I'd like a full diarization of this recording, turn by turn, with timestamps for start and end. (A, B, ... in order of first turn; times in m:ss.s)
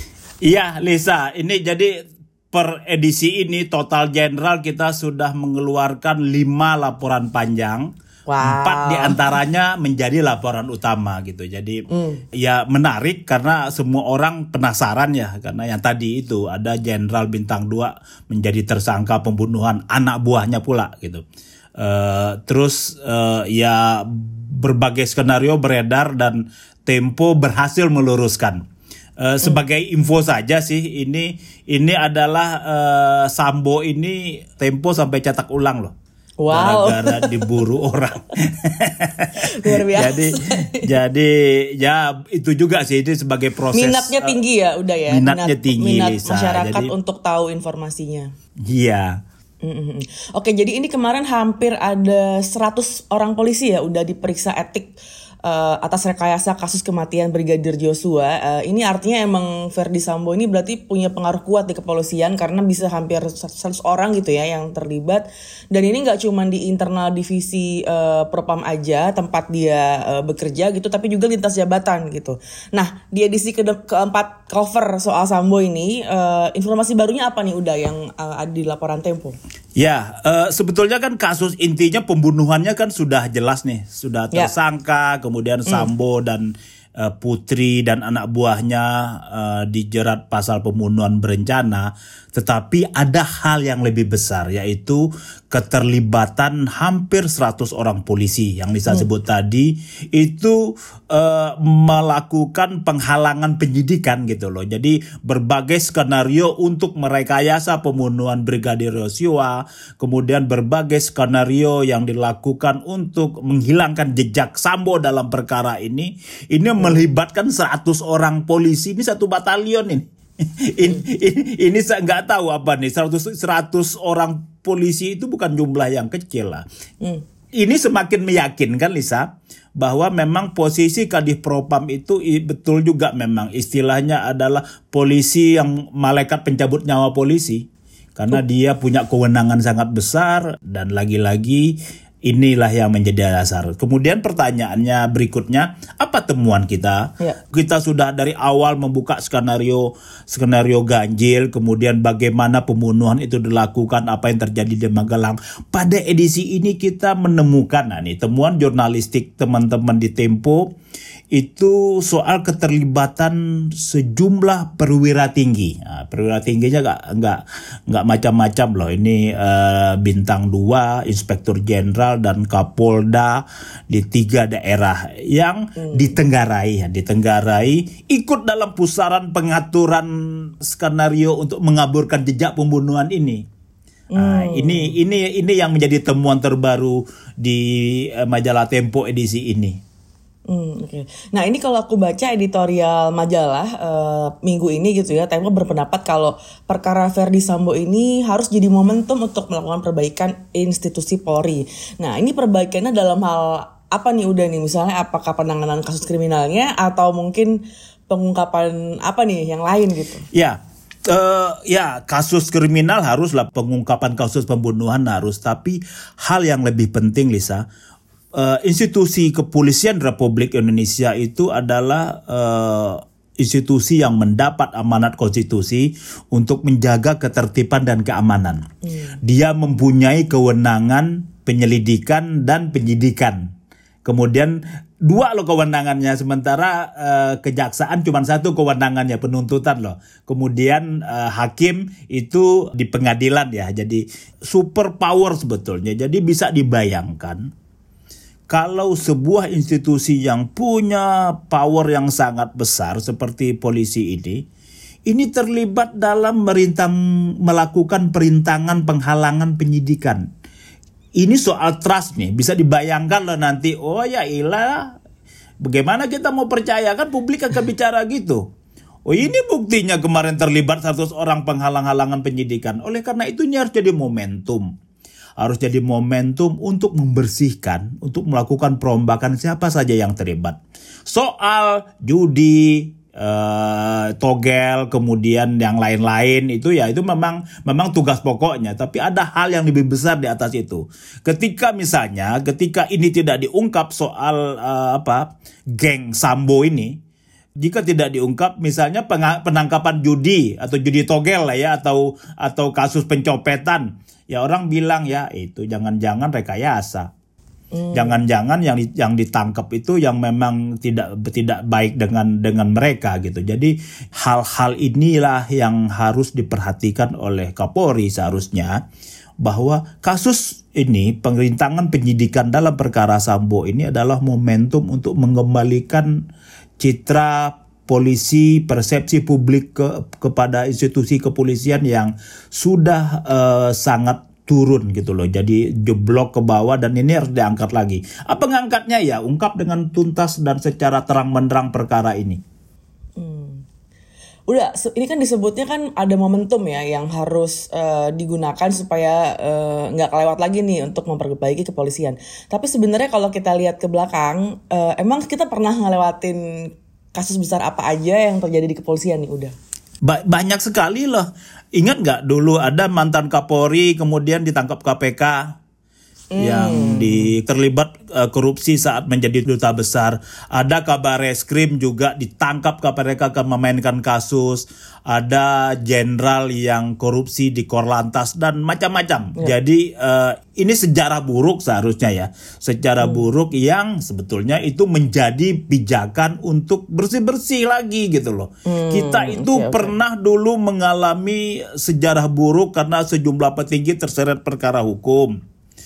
0:00.4-0:02.0 A
0:02.5-0:07.9 A
0:08.3-0:09.2 B
0:08.4-0:11.8 A
0:11.9-0:12.2 B
0:12.4-0:21.2 A
0:21.8-0:28.6 A
0:29.2-0:35.9 A
0:36.4-0:37.4 B
0:36.5-0:44.4 A
0:39.4-0:40.9 B
0:43.7-0:48.3 B
0:45.1-0:46.9 A
0:48.6-0:49.2 A
0:49.6-0:54.9 B
0:55.4-1:19.4 B
1:19.8-2:06.6 A
1:56.8-1:57.0 B
2:07.6-2:09.2 A
2:09.8-2:17.6 A
2:18.2-2:40.7 A
2:41.3-3:03.4 A
2:55.8-2:56.2 B
3:04.1-3:05.0 B
3:04.2-3:09.8 A
3:10.5-3:30.2 B
3:30.3-3:37.6 A
3:38.3-3:48.6 A
3:48.8-3:49.2 B
3:49.2-3:53.5 A
3:54.0-4:07.5 A
4:08.5-4:14.4 A
4:15.1-4:20.2 A
4:21.2-4:25.0 A
4:25.6-4:28.4 A
4:29.0-4:34.6 A
4:35.4-4:56.9 A
4:57.6-5:07.1 A
5:07.7-5:08.2 B
5:07.9-5:18.8 A
5:19.4-5:26.1 A
5:26.8-5:42.4 A
5:43.2-5:43.6 B
5:44.5-5:59.5 B
6:00.0-6:05.5 A
6:06.3-6:07.3 B
6:06.4-6:35.3 A
6:23.0-6:23.3 B
6:28.6-6:30.0 B